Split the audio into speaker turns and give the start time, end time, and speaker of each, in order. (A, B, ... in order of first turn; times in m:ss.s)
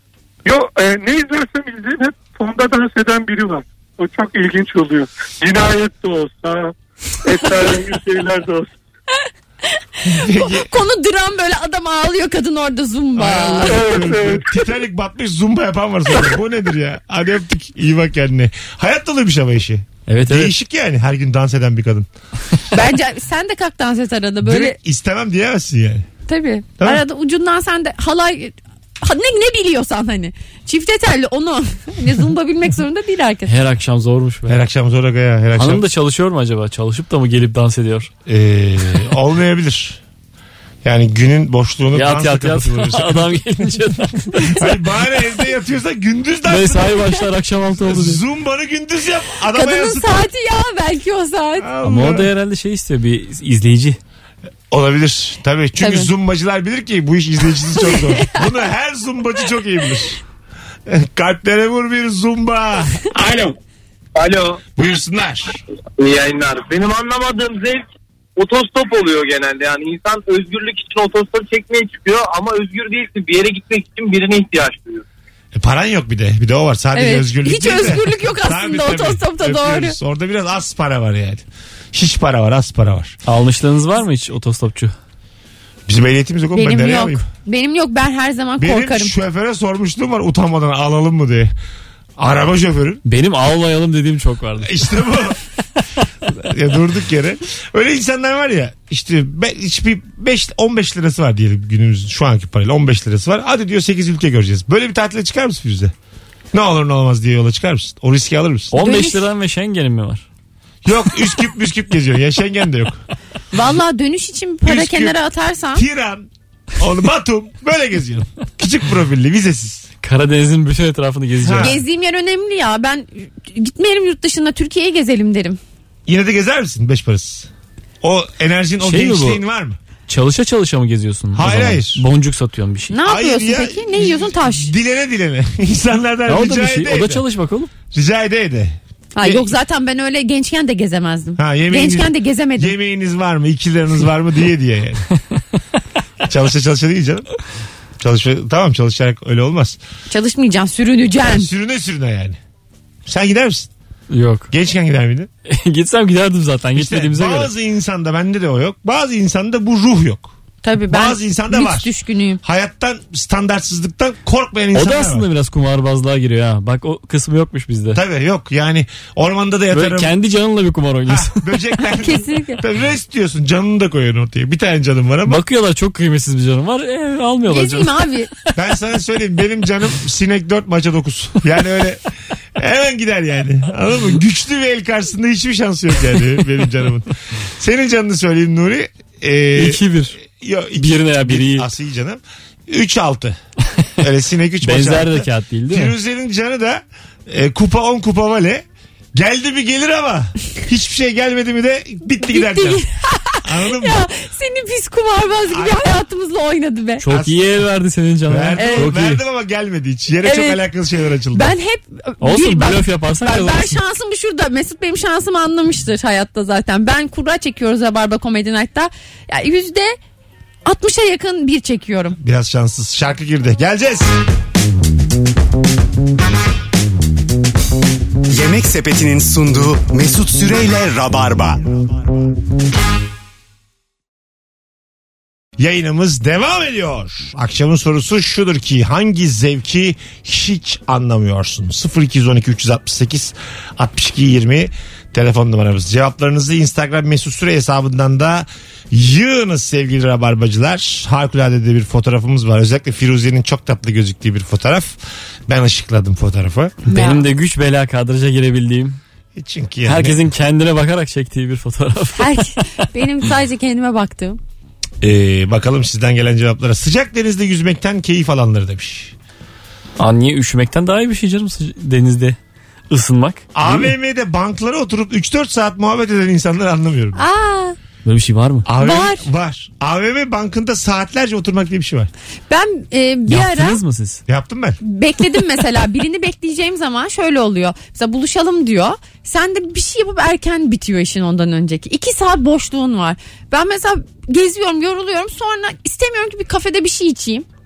0:00.4-0:08.7 A
0:09.8-0:13.9 B
0:10.0-0:10.7 C
0:13.2-0:22.1 C
0:13.6-0:14.6 A
0:20.1-0:20.5 D
0:22.7-0:24.8 B
0:24.4-0:26.1 C
0:26.3-0:33.5 B
0:33.5-0:34.6 D
0:34.5-0:35.8 C
0:35.6-0:38.1 D
0:38.2-0:40.0 C
0:40.8-0:43.8 C
0:41.9-0:44.6 D
0:44.4-0:47.1 C
0:46.5-0:48.2 D
0:47.8-0:50.3 C
0:49.5-0:51.7 B
0:51.6-0:52.3 C
0:51.8-0:54.0 D
0:54.7-1:00.2 C
0:55.8-0:56.1 B
0:57.8-0:58.4 B
1:00.9-1:03.4 C
1:03.2-1:03.5 E
1:04.2-1:04.6 E
1:04.8-1:05.6 C
1:06.0-1:07.8 E
1:08.4-1:15.0 E
1:15.5-1:23.2 C
1:16.9-1:20.0 B
1:23.2-1:24.9 D
1:25.9-1:27.2 C
1:26.5-1:29.1 B
1:28.6-1:31.5 C
1:32.2-1:33.0 C
1:33.0-1:34.9 D
1:34.6-1:35.4 C
1:36.3-1:45.9 C
1:46.5-1:48.7 C
1:48.7-1:50.2 D
1:48.8-1:49.2 B
1:50.8-1:53.0 C
1:53.5-1:55.8 B
1:54.6-1:55.2 C
1:55.7-1:59.9 C
2:00.0-2:01.8 D
2:01.4-2:01.8 C
2:01.6-2:05.6 B
2:06.1-2:07.5 C
2:08.0-2:09.8 C
2:08.8-2:09.4 D
2:10.1-2:12.9 D
2:11.3-2:12.0 C
2:12.9-2:14.7 B
2:13.0-2:17.2 C
2:16.3-2:17.7 D
2:17.9-2:19.5 C
2:19.2-2:22.7 B
2:21.4-2:25.0 C
2:26.2-2:27.3 C
2:28.0-2:29.8 C
2:30.1-2:31.5 B
2:31.2-2:32.4 C
2:33.0-2:33.7 C
2:34.1-2:34.5 D
2:34.5-2:35.3 C
2:35.5-2:37.5 D
2:36.7-2:40.3 C
2:40.6-2:42.4 B
2:40.9-2:41.9 C
2:42.4-2:45.3 C
2:44.7-2:48.0 D
2:47.9-2:50.1 C
2:49.7-2:51.4 D
2:51.1-2:55.4 C
2:51.9-2:52.6 B
2:55.2-2:58.0 D
2:57.5-2:58.3 B
2:58.5-3:02.0 C
3:02.6-3:13.4 C
3:09.5-3:10.2 D
3:10.8-3:11.7 D
3:14.0-3:22.8 C
3:14.6-3:15.9 D
3:22.2-3:27.0 B
3:23.4-3:24.0 C
3:25.5-3:26.0 C
3:27.0-3:29.2 D
3:27.1-3:27.5 C
3:28.3-3:31.5 C
3:28.6-3:28.9 B
3:30.2-3:30.6 B
3:31.3-3:40.0 B
3:32.2-3:33.8 D
3:40.6-3:42.2 B
3:42.2-3:44.1 C
3:48.3-3:51.7 F
3:55.6-4:15.0 C
4:15.5-4:16.7 C
4:16.8-4:19.0 D
4:16.8-4:17.2 B
4:19.3-4:20.2 C
4:19.8-4:22.4 D
4:22.2-4:24.4 B
4:25.0-4:29.1 C
4:30.0-4:32.4 D
4:32.9-4:33.9 D
4:33.5-4:37.2 C
4:37.2-4:37.8 B
4:38.0-4:38.6 D
4:38.6-4:42.1 C
4:38.8-4:39.2 B
4:42.5-4:43.8 B
4:43.3-4:44.2 D
4:44.3-4:44.8 C
4:44.8-4:57.4 B